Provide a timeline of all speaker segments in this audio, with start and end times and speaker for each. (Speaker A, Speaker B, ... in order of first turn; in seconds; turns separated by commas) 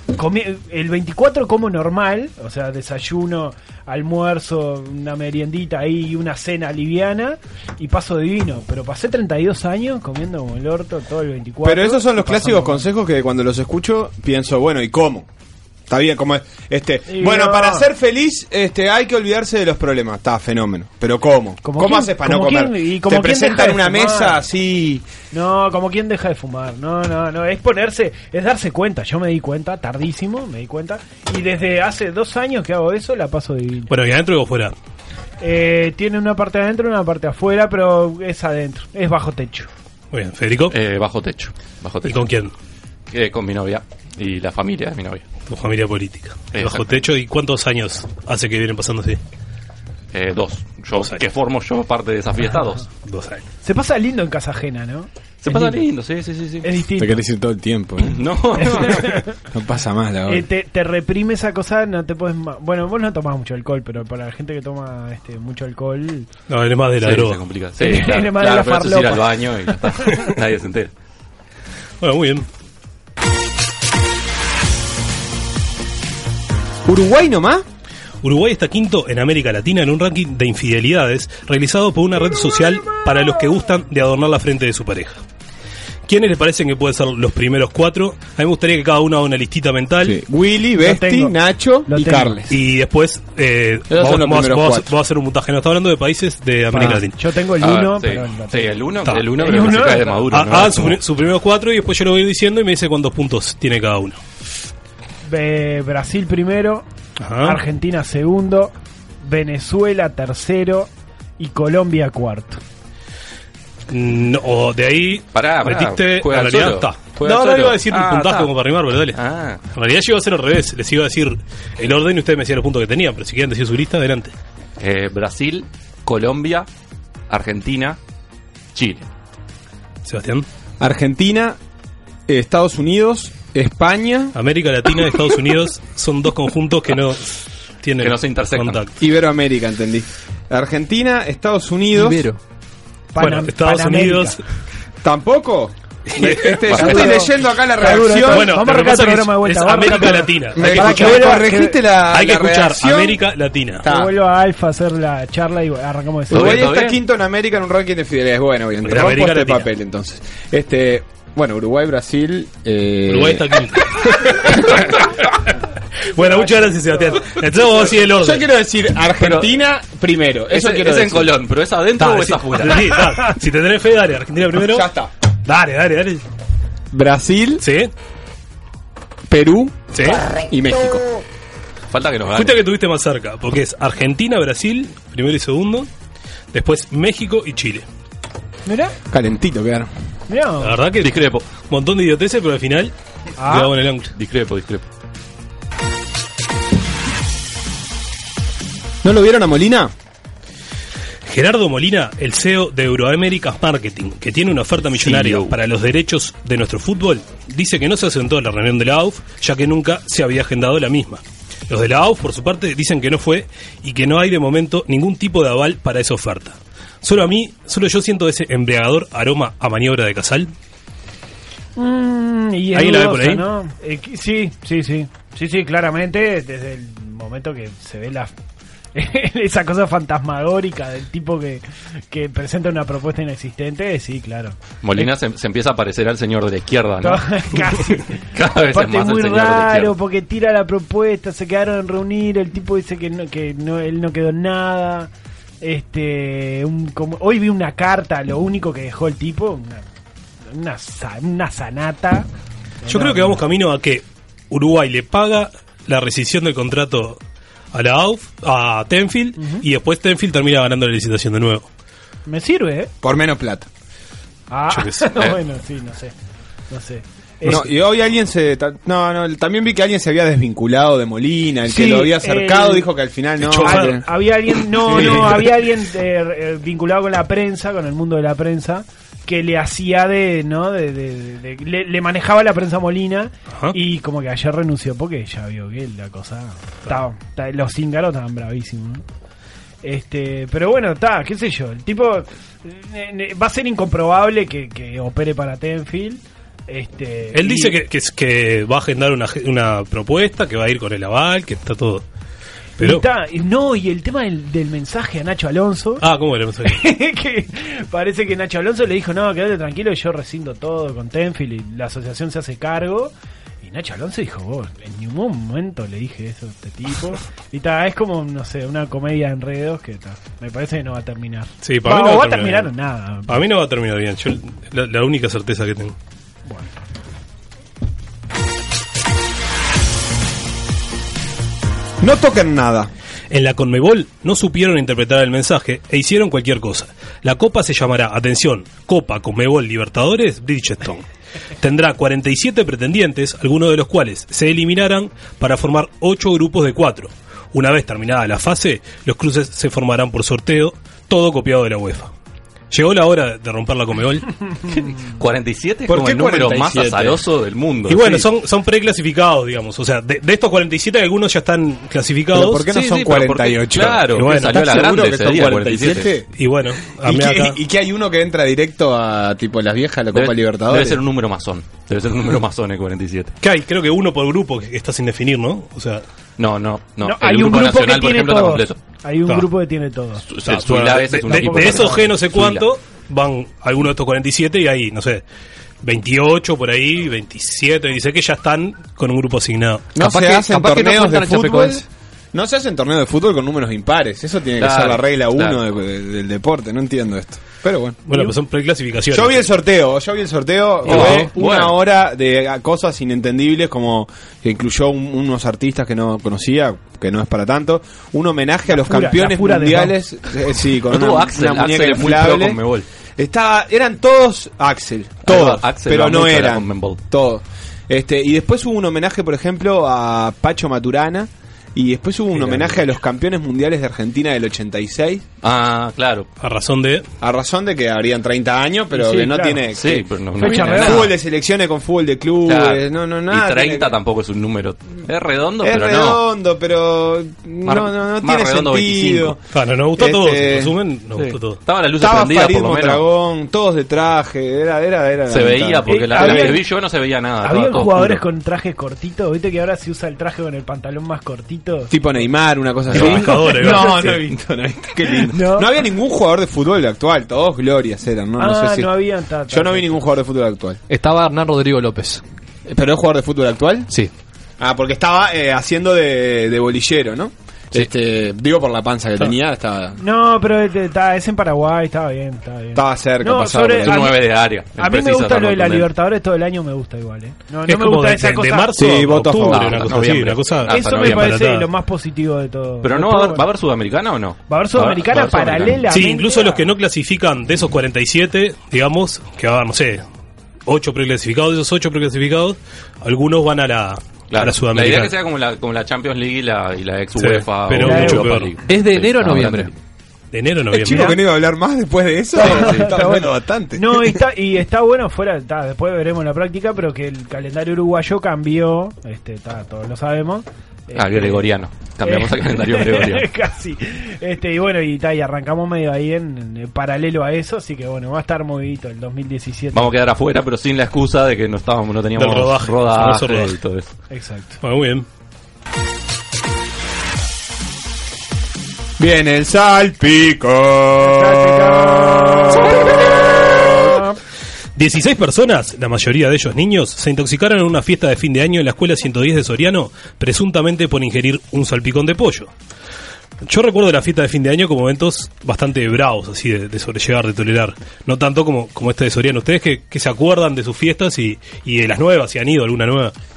Speaker A: 0.1-12.9, Speaker B: 11.6-15.3, Speaker B: 15.9-25.0, Speaker A: 17.1-17.9, Speaker A: 21.6-24.4, Speaker A: 25.3-33.9, Speaker C: 33.9-34.7, Speaker A: 35.4-39.7, Speaker C: 40.1-40.8, Speaker D: 40.7-42.3, Speaker C: 42.0-42.5, Speaker D: 43.1-45.2, Speaker C: 45.5-49.2, Speaker D: 46.5-47.0, Speaker D: 50.1-52.9, Speaker C: 53.0-53.4, Speaker A: 53.6-55.8, Speaker D: 55.4-56.7, Speaker A: 56.6-57.2, Speaker B: 57.0-58.2, Speaker D: 58.0-59.1, Speaker A: 58.6-59.4, Speaker B: 59.5-60.4, Speaker A: 60.3-66.3, Speaker C: 66.5-67.4, Speaker D: 67.0-70.9, Speaker A: 67.8-69.2, Speaker C: 72.0-72.5, Speaker B: 76.9-77.7, Speaker C: 78.2-85.2, Speaker C: 86.1-90.2, Speaker B: 90.0-92.6, Speaker A: 90.8-91.3, Speaker A: 91.9-92.3, Speaker C: 92.5-97.2, Speaker B: 93.9-94.9, Speaker A: 96.7-98.8, Speaker D: 97.6-101.0, Speaker A: 99.4-100.2, Speaker C: 100.3-104.2, Speaker A: 105.2-106.8, Speaker C: 107.2-107.6, Speaker A: 107.4-112.6, Speaker C: 113.9-119.2, Speaker D: 115.3-118.4, Speaker D: 119.2-119.6, Speaker C: 119.7-124.3, Speaker D: 124.8-126.7, Speaker D: 127.3-128.0, Speaker D: 128.8-129.1, Speaker C: 130.1-130.4, Speaker B: 130.8-131.6, Speaker B: 132.3-134.3, Speaker C: 134.3-138.9, Speaker D: 138.0-138.8, Speaker B: 139.0-142.2, Speaker E: 141.9-142.4, Speaker A: 143.1-144.4, Speaker C: 143.2-144.4, Speaker B: 145.0-148.5, Speaker C: 146.1-147.0, Speaker A: 146.7-151.8, Speaker C: 148.2-153.8, Speaker B: 150.6-153.2, Speaker B: 153.8-154.1, Speaker A: 153.8-156.7, Speaker B: 156.3-163.6, Speaker D: 156.3-157.0, Speaker C: 158.8-159.7, Speaker C: 163.1-165.0, Speaker C: 166.1-168.5, Speaker B: 168.2-171.3, Speaker D: 169.2-169.6, Speaker D: 170.5-173.0, Speaker C: 172.0-174.9, Speaker B: 174.6-175.1, Speaker C: 175.5-176.2, Speaker B: 176.9-177.7, Speaker C: 177.6-177.9, Speaker B: 179.3-181.2, Speaker C: 179.9-180.3, Speaker D: 181.9-182.6, Speaker C: 182.3-185.9, Speaker C: 186.5-187.8, Speaker A: 188.7-188.9, Speaker B: 189.1-189.9, Speaker A: 190.3-190.8, Speaker C: 190.6-192.9, Speaker D: 191.0-191.5, Speaker A: 193.4-193.7, Speaker C: 193.4-194.1, Speaker D: 194.2-194.8, Speaker B: 199.0-199.9, Speaker C: 201.3-220.5, Speaker D: 204.9-205.5, Speaker A: 221.8-228.3, Speaker C: 222.7-223.5, Speaker A: 228.9-234.6, Speaker D: 234.8-237.8, Speaker A: 237.0-245.1, Speaker D: 238.3-239.9, Speaker A: 245.6-249.9, Speaker A: 250.5-252.3, Speaker A: 252.8-253.4, Speaker C: 252.9-257.2, Speaker C: 257.7-261.7, Speaker A: 259.4-259.6, Speaker A: 262.3-262.9, Speaker B: 263.0-263.7, Speaker A: 264.5-266.1, Speaker C: 264.7-265.3, Speaker A: 266.7-267.7, Speaker B: 267.4-274.0, Speaker A: 271.7-272.9, Speaker C: 273.4-274.0, Speaker A: 273.6-289.0, Speaker C: 274.8-275.4, Speaker B: 274.9-275.4, Speaker A: 289.8-297.8, Speaker C: 297.3-302.0, Speaker A: 302.8-306.1, Speaker C: 302.8-303.0, Speaker C: 306.0-306.8, Speaker A: 306.6-323.4, Speaker C: 321.6-322.7, Speaker C: 323.3-325.9, Speaker B: 332.0-332.9, Speaker C: 333.3-341.0, Speaker C: 341.6-352.1, Speaker C: 352.7-354.3, Speaker D: 354.7-358.2, Speaker B: 355.9-357.2, Speaker C: 357.9-362.7, Speaker B: 362.3-366.3, Speaker D: 362.7-366.1, Speaker C: 364.1-364.6, Speaker C: 366.4-367.6, Speaker B: 367.0-371.0, Speaker D: 370.1-373.3, Speaker C: 373.4-376.0, Speaker D: 376.4-378.8, Speaker A: 377.0-380.2, Speaker D: 380.3-382.7, Speaker C: 380.5-385.2, Speaker A: 381.3-382.1, Speaker C: 385.8-389.9, Speaker B: 390.0-398.0, Speaker E: 390.0-391.8, Speaker D: 394.6-395.6, Speaker C: 398.1-399.5, Speaker B: 399.1-412.6, Speaker D: 400.9-401.8, Speaker C: 400.9-401.2, Speaker A: 408.7-410.0, Speaker D: 410.9-412.9, Speaker B: 413.2-425.2, Speaker D: 415.2-417.0, Speaker D: 422.4-422.8, Speaker D: 425.4-426.3, Speaker C: 426.4-427.1, Speaker B: 427.2-433.9, Speaker A: 428.9-429.6, Speaker D: 429.7-431.1, Speaker A: 430.4-431.1, Speaker D: 432.4-436.2, Speaker B: 435.6-439.4, Speaker D: 437.6-439.4, Speaker C: 439.5-441.6, Speaker B: 440.0-440.8, Speaker D: 441.2-443.1, Speaker B: 442.0-446.6, Speaker D: 445.3-448.2, Speaker A: 445.9-446.6, Speaker A: 447.4-452.2, Speaker B: 451.9-458.9, Speaker C: 452.9-454.2, Speaker D: 452.9-453.2, Speaker A: 453.6-454.1, Speaker A: 455.2-455.7, Speaker A: 458.4-460.0, Speaker B: 459.5-460.8, Speaker E: 460.9-462.2, Speaker B: 462.7-463.9, Speaker B: 464.6-470.0, Speaker A: 470.0-474.2, Speaker B: 472.8-474.0, Speaker D: 473.8-475.9, Speaker A: 474.8-478.7, Speaker C: 477.7-481.7, Speaker B: 478.8-480.1, Speaker D: 479.5-481.3, Speaker A: 480.7-483.4, Speaker D: 482.8-485.8, Speaker A: 484.5-486.7, Speaker C: 485.9-490.1, Speaker C: 490.7-495.1, Speaker D: 494.3-499.7, Speaker C: 497.2-498.5, Speaker A: 497.8-498.3, Speaker E: 498.7-499.7, Speaker C: 500.3-501.2, Speaker B: 500.7-504.2, Speaker A: 500.9-501.2, Speaker A: 502.3-511.5, Speaker D: 510.9-513.3, Speaker A: 512.0-519.9, Speaker D: 519.7-523.9, Speaker C: 522.2-523.5, Speaker A: 524.1-524.6, Speaker C: 524.6-525.0, Speaker B: 529.0-533.9, Speaker A: 531.0-532.8, Speaker A: 533.9-534.2, Speaker C: 534.8-542.5, Speaker C: 543.4-553.1